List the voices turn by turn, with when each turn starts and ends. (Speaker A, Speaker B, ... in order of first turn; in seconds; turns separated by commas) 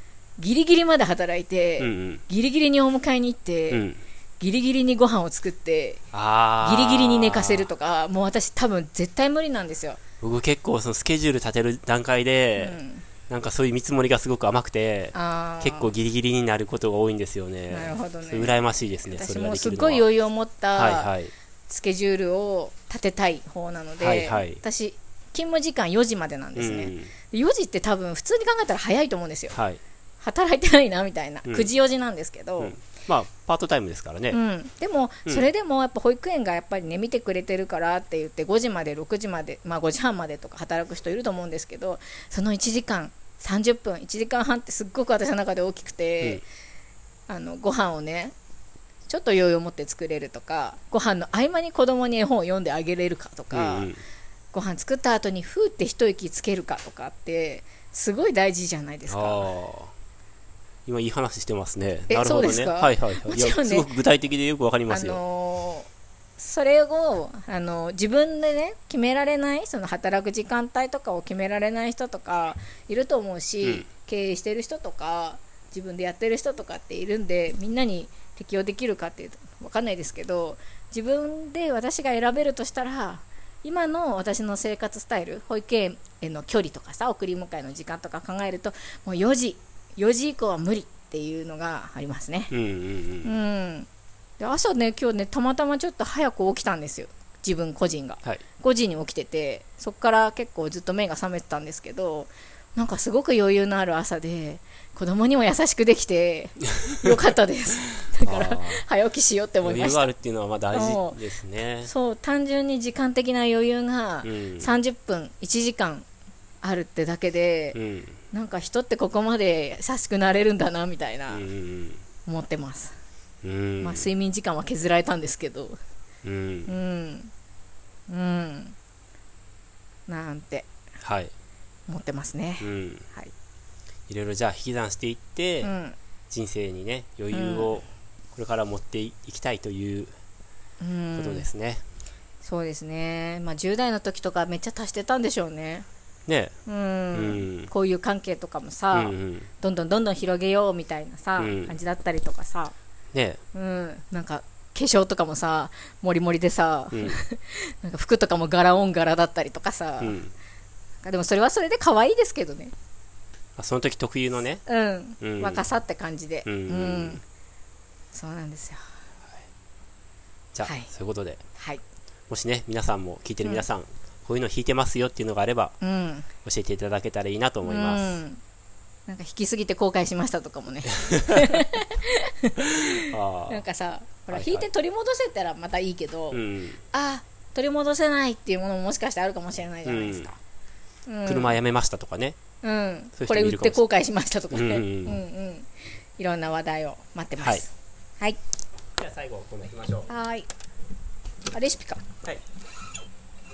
Speaker A: 0.4-3.9, Speaker B: 1.8-2.2, Speaker B: 3.7-4.0, Speaker A: 4.4-6.0, Speaker B: 6.1-7.7, Speaker A: 6.6-10.0, Speaker B: 10.2-20.1, Speaker A: 12.6-13.0, Speaker A: 15.1-15.9, Speaker A: 17.7-21.1, Speaker B: 20.7-21.3, Speaker A: 21.7-29.6, Speaker B: 24.0-24.6, Speaker B: 26.6-27.1, Speaker B: 29.5-29.8, Speaker A: 30.2-32.8, Speaker B: 32.6-34.4, Speaker A: 34.3-46.4, Speaker A: 47.3-48.3, Speaker A: 49.1-53.9, Speaker B: 53.5-54.0, Speaker A: 54.5-59.5, Speaker B: 59.1-59.9, Speaker B: 60.9-65.2, Speaker A: 62.1-63.9, Speaker A: 64.9-92.5, Speaker B: 92.5-93.3, Speaker A: 93.2-93.9, Speaker A: 94.4-110.1, Speaker B: 108.2-108.8, Speaker B: 109.6-111.9, Speaker A: 110.7-111.2, Speaker A: 111.8-116.1, Speaker B: 114.2-114.7, Speaker A: 116.6-117.8, Speaker B: 117.7-118.2, Speaker A: 118.3-121.5, Speaker B: 121.3-122.0, Speaker A: 122.3-123.0, Speaker B: 123.4-124.1, Speaker A: 123.8-125.8, Speaker B: 126.2-126.7, Speaker A: 126.7-127.3, Speaker A: 128.1-128.8, Speaker A: 130.1-130.7, Speaker B: 131.0-131.3, Speaker A: 131.9-133.3, Speaker B: 132.6-133.1, Speaker B: 134.1-135.7, Speaker A: 135.6-136.0, Speaker B: 136.3-140.1, Speaker A: 137.3-137.8, Speaker A: 140.8-141.5, Speaker B: 141.2-141.8, Speaker A: 142.4-145.9, Speaker B: 146.3-146.6, Speaker A: 146.7-152.8, Speaker B: 147.1-147.7, Speaker B: 148.9-149.5, Speaker B: 151.4-151.7, Speaker B: 153.1-153.4, Speaker A: 153.5-160.2, Speaker B: 156.9-157.2, Speaker B: 160.0-160.3, Speaker A: 161.0-162.7, Speaker B: 163.6-164.6, Speaker A: 164.7-167.2, Speaker B: 165.2-165.7, Speaker B: 166.5-167.2, Speaker A: 168.1-168.8, Speaker B: 170.5-171.4, Speaker A: 170.6-170.9, Speaker A: 171.6-171.8, Speaker B: 172.3-175.8, Speaker A: 175.8-176.3, Speaker B: 176.4-178.2, Speaker A: 177.7-178.4, Speaker A: 179.1-186.4, Speaker B: 181.0-181.6, Speaker B: 183.0-183.6, Speaker B: 184.3-184.7, Speaker B: 186.3-186.8, Speaker A: 186.9-190.4, Speaker B: 189.8-190.3, Speaker A: 191.1-191.6, Speaker B: 191.3-192.4, Speaker A: 192.6-198.4, Speaker B: 193.2-193.8, Speaker B: 194.5-195.2, Speaker B: 197.4-197.6, Speaker B: 199.0-200.1, Speaker A: 200.1-200.5, Speaker A: 201.5-202.0